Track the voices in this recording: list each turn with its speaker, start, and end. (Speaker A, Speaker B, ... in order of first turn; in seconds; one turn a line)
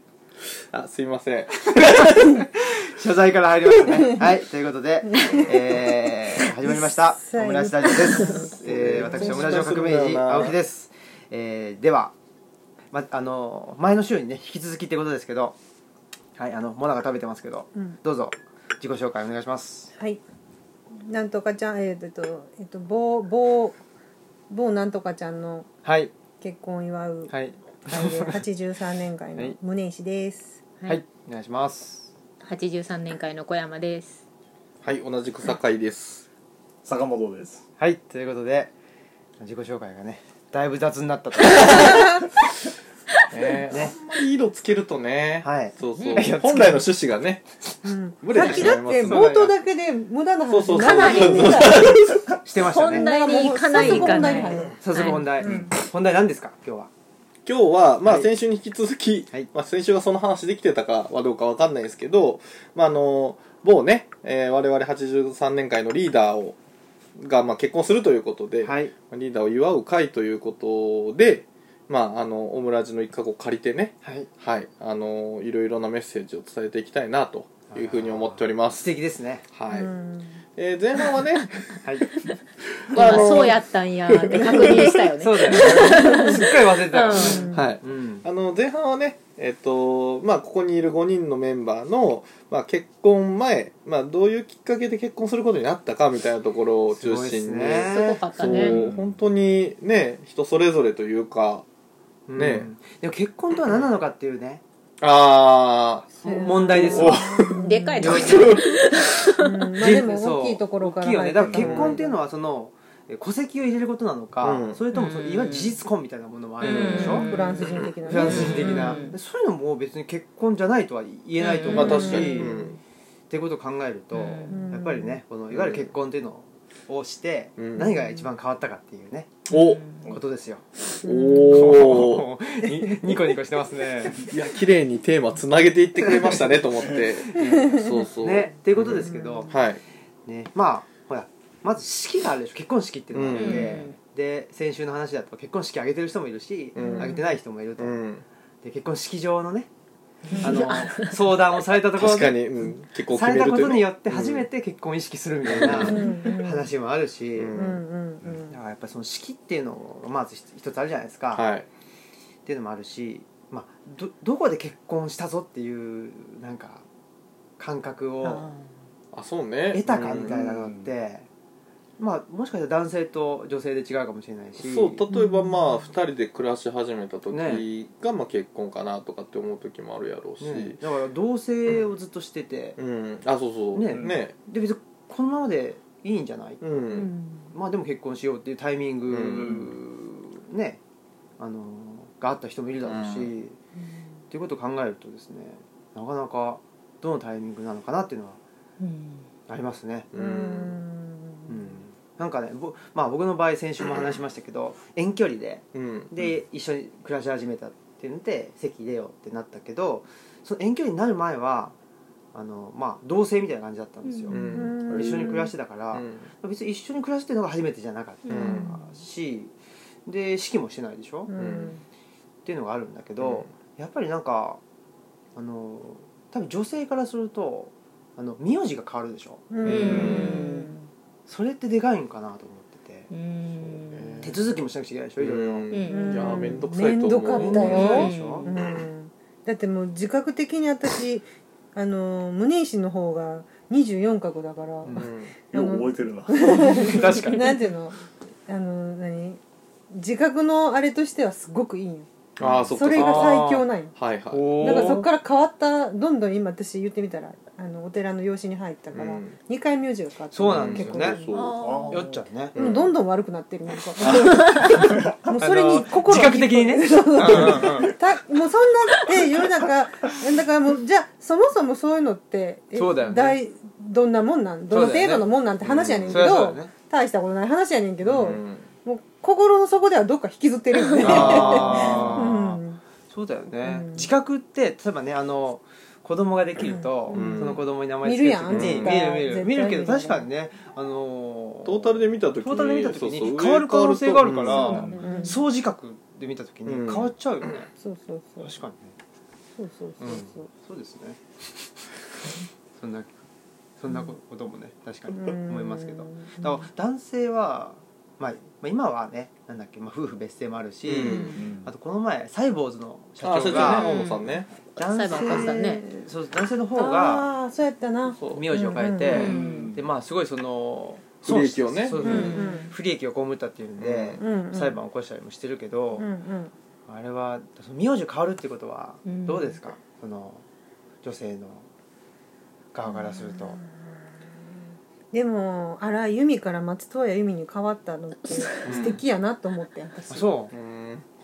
Speaker A: 0.4-2.5
Speaker B: 1.7-12.1
Speaker C: 5.1-5.9
Speaker C: 6.6-9.8
Speaker A: 8.6-10.6
Speaker B: 12.9-15.6
Speaker B: 16.3-19.9
Speaker C: 19.9-20.2
Speaker C: 20.9-23.8
Speaker C: 24.5-25.7
Speaker B: 25.8-26.1
Speaker C: 26.4-27.3
Speaker B: 27.3-28.4
Speaker C: 27.9-30.6
Speaker B: 30.9-32.1
Speaker D: 32.4-34.2
Speaker A: 34.8-36.2
Speaker E: 36.8-37.6
Speaker B: 37.8-38.7
Speaker B: 39.4-42.3
Speaker D: 41.4-42.0
Speaker A: 43.3-47.4
Speaker B: 43.3-43.9
Speaker B: 45.4-46.9
Speaker D: 46.0-46.3
Speaker C: 47.8-52.0
Speaker A: 48.2-49.4
Speaker B: 48.3-49.5
Speaker A: 50.5-52.4
Speaker D: 50.7-51.9
Speaker B: 52.4-56.9
Speaker D: 52.6-55.3
Speaker C: 52.8-54.8
Speaker C: 55.4-55.7
Speaker A: 57.4-66.6
Speaker B: 58.0-58.3
Speaker A: 67.2-78.9
Speaker B: 68.6-68.9
Speaker B: 74.0-74.3
Speaker B: 77.7-79.4
Speaker A: 79.5-79.9
Speaker C: 79.7-80.4
Speaker A: 80.5-82.3
Speaker A: 82.8-83.6
Speaker C: 82.9-83.4
Speaker D: 82.9-87.5
Speaker A: 84.1-85.7
Speaker B: 84.5-88.2
Speaker C: 85.5-86.4
Speaker C: 87.1-87.7
Speaker A: 87.5-101.7
Speaker B: 96.9-98.2
Speaker D: 97.8-98.8
Speaker E: 98.6-99.2
Speaker B: 102.3-104.6
Speaker A: 102.3-102.7
Speaker A: 105.0-108.8
Speaker C: 106.2-108.3
Speaker B: 106.2-107.4
Speaker D: 107.6-109.5
Speaker B: 108.0-108.6
Speaker C: 109.4-112.2
Speaker B: 109.8-122.6
Speaker A: 111.5-112.0
Speaker A: 114.4-114.8
Speaker D: 114.9-115.8
Speaker D: 116.6-119.2
Speaker C: 116.6-119.1
Speaker A: 117.2-118.5
Speaker D: 121.4-122.4
Speaker C: 121.7-122.6
Speaker A: 121.7-122.8
Speaker B: 123.3-129.5
Speaker D: 124.1-124.5
Speaker C: 124.5-125.2
Speaker A: 125.5-125.9
Speaker A: 127.6-128.0
Speaker C: 127.8-128.3
Speaker A: 129.5-130.2
Speaker D: 129.5-130.1
Speaker B: 130.0-130.6
Speaker A: 131.0-132.3
Speaker C: 131.0-131.7
Speaker B: 131.2-134.2
Speaker C: 132.6-133.1
Speaker A: 134.2-139.8
Speaker B: 137.3-139.6
Speaker C: 137.4-137.9
Speaker C: 139.0-139.5
Speaker B: 140.2-148.0
Speaker A: 143.1-143.8
Speaker D: 143.3-144.0
Speaker C: 146.8-147.2
Speaker A: 146.8-147.2
Speaker D: 146.8-147.1
Speaker A: 147.8-148.2
Speaker B: 148.6-149.7
Speaker C: 150.3-150.7
Speaker D: 150.3-151.2
Speaker B: 150.4-157.5
Speaker A: 151.9-154.5
Speaker A: 155.4-156.0
Speaker C: 155.8-156.7
Speaker A: 157.3-157.8
Speaker C: 157.5-158.6
Speaker B: 158.5-161.4
Speaker A: 161.3-161.7
Speaker B: 162.4-166.8
Speaker B: 167.6-168.5
Speaker C: 168.2-168.6
Speaker A: 169.1-170.4
Speaker B: 169.7-171.3
Speaker E: 170.3-170.9
Speaker B: 172.0-175.0
Speaker A: 174.6-180.8
Speaker C: 175.1-175.8
Speaker B: 177.3-177.6
Speaker B: 180.4-182.8
Speaker A: 182.8-184.3
Speaker B: 183.7-186.6
Speaker E: 183.9-184.2
Speaker A: 186.6-187.1
Speaker C: 186.9-187.5
Speaker B: 187.5-190.8
Speaker A: 189.1-189.6
Speaker E: 189.4-189.7
Speaker B: 191.4-193.6
Speaker A: 192.8-193.3
Speaker B: 194.3-198.4
Speaker D: 198.8-199.2
Speaker B: 199.5-200.1
Speaker A: 200.1-200.8
Speaker C: 200.1-201.8
Speaker B: 201.5-211.7
Speaker A: 205.7-206.3
Speaker B: 212.3-219.5
Speaker D: 214.0-214.3
Speaker C: 214.3-215.5
Speaker A: 214.3-216.3
Speaker D: 218.2-218.8
Speaker A: 218.3-218.7
Speaker B: 220.1-221.3
Speaker C: 221.2-221.8
Speaker A: 221.3-221.7
Speaker B: 222.4-224.6
Speaker A: 223.2-223.5
Speaker B: 225.3-230.3
Speaker C: 229.5-230.9
Speaker D: 229.6-230.7
Speaker A: 229.6-230.4
Speaker B: 231.3-233.1
Speaker D: 233.1-234.3
Speaker E: 233.9-234.2
Speaker B: 234.2-235.8
Speaker A: 235.2-238.1
Speaker D: 235.7-236.6
Speaker C: 235.8-249.4
Speaker B: 237.3-238.5
Speaker D: 237.5-238.5
Speaker B: 244.8-245.1
Speaker A: 244.9-245.3
Speaker E: 245.5-247.0
Speaker B: 246.5-247.5
Speaker C: 249.9-252.1
Speaker A: 252.4-255.0
Speaker E: 252.4-252.7
Speaker C: 252.7-253.9
Speaker B: 252.9-253.7
Speaker B: 254.3-255.1
Speaker C: 254.6-261.3
Speaker A: 258.9-259.4
Speaker B: 260.3-261.2
Speaker A: 260.5-261.6
Speaker D: 261.3-262.1
Speaker E: 261.5-262.2
Speaker B: 261.9-262.5
Speaker A: 262.5-262.9
Speaker C: 262.5-282.8
Speaker D: 264.4-264.9
Speaker E: 264.8-265.2
Speaker B: 265.3-267.9
Speaker B: 272.7-273.4
Speaker B: 274.7-275.3
Speaker A: 275.6-276.3
Speaker B: 276.1-276.7
Speaker A: 278.0-278.6
Speaker B: 281.0-297.7
Speaker A: 281.0-282.2
Speaker C: 283.6-284.1
Speaker C: 286.6-290.3
Speaker A: 287.1-287.7
Speaker A: 288.5-289.1
Speaker A: 291.6-295.0
Speaker E: 294.3-294.9
Speaker D: 294.5-295.4
Speaker C: 294.9-295.4
Speaker A: 296.6-297.1
Speaker C: 297.8-298.6
Speaker B: 298.4-298.9
Speaker C: 299.6-300.5
Speaker B: 300.0-301.2
Speaker B: 302.8-303.1
Speaker B: 303.8-313.9
Speaker C: 305.1-306.7
Speaker A: 310.8-311.4
Speaker D: 311.0-311.4
Speaker E: 311.3-311.7
Speaker A: 313.2-314.5
Speaker D: 313.5-314.2
Speaker B: 314.7-317.3
Speaker D: 314.8-315.8
Speaker C: 315.2-316.0
Speaker C: 316.7-319.3
Speaker A: 318.1-319.3
Speaker B: 318.3-326.1
Speaker D: 319.1-319.8
Speaker E: 319.1-319.9
Speaker A: 321.2-322.3
Speaker D: 321.9-322.6
Speaker C: 322.0-322.7
Speaker A: 323.8-324.2
Speaker C: 324.2-324.8
Speaker C: 325.9-326.5
Speaker B: 326.9-330.4
Speaker D: 329.1-329.6
Speaker B: 331.0-331.6
Speaker B: 332.7-333.6
Speaker C: 333.2-333.7
Speaker C: 335.1-340.3
Speaker D: 338.2-338.8
Speaker A: 338.6-339.0
Speaker B: 340.1-340.5
Speaker A: 340.5-341.1